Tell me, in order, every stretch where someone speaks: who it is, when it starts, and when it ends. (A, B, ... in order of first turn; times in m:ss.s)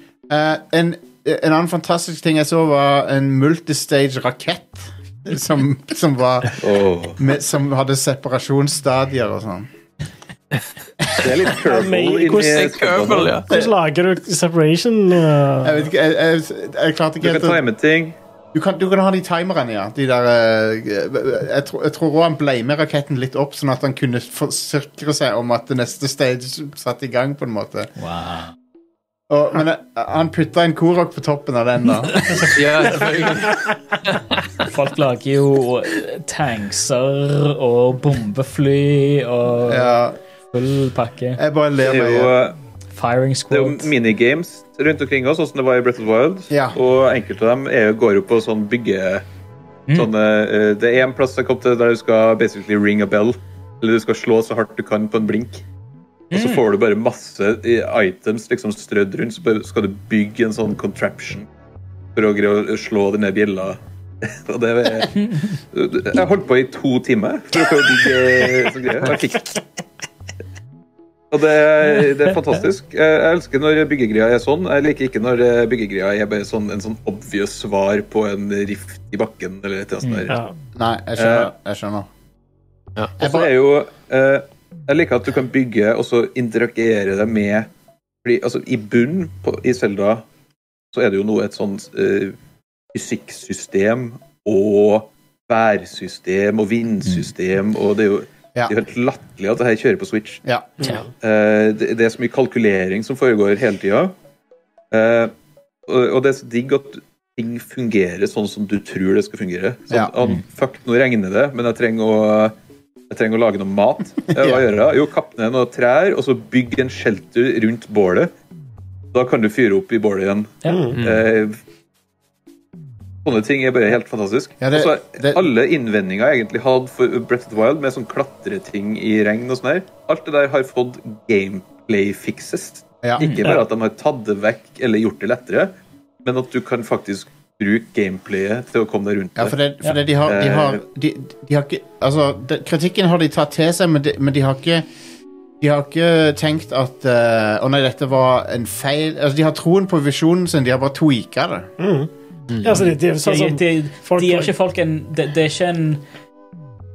0:00.3-0:06.6 A
0:06.6-0:07.2 B
0:07.2-0:09.7 A
0:11.2-0:13.4 B
0:11.6-0:12.7 C
0:12.5-0:13.5 D
0:13.5-0:15.9 C
0:15.6-0:17.6 A
0:17.2-0:18.2 B
0:18.5-0:27.9 A
0:28.0-0:28.5 E
0:29.3-0:32.6 A
0:32.5-0:34.2 D
0:34.6-0:40.0 E
0:39.6-0:40.2 A
0:40.5-0:41.4 E
0:41.4-0:42.3 A
0:41.8-0:42.6 B
0:42.9-0:43.9 E
0:43.5-0:49.2 B
0:46.5-0:46.8 A
0:49.9-0:55.6 B
0:56.3-0:56.6 E
0:56.3-1:01.5 B
1:02.2-1:09.6 B
1:11.3-1:20.4 B
1:20.0-1:20.3 E
1:20.8-1:22.1 A
1:21.2-1:21.5 B
1:23.2-1:23.5 A
1:23.2-1:27.7 B
1:28.2-1:30.2 B
1:30.9-1:32.4 B
1:32.9-1:40.4 B
1:40.8-1:41.1 C
1:41.2-1:44.1 B
1:44.9-1:45.3 B
1:45.9-1:52.6 B
1:53.1-1:58.3 B
1:54.3-1:54.6 A
1:59.1-2:01.6 B
2:00.6-2:00.9 E
2:00.7-2:01.0 C
2:01.0-2:01.2 D
2:03.2-2:15.7 B
2:04.6-2:05.4 A
2:13.0-2:13.5 A
2:13.2-2:13.6 E
2:16.2-2:19.6 B
2:19.4-2:24.8 A
2:20.2-2:20.8 B
2:25.6-2:31.7 A
2:31.8-2:32.1 C
2:32.6-2:34.5 C
2:33.2-2:36.0 E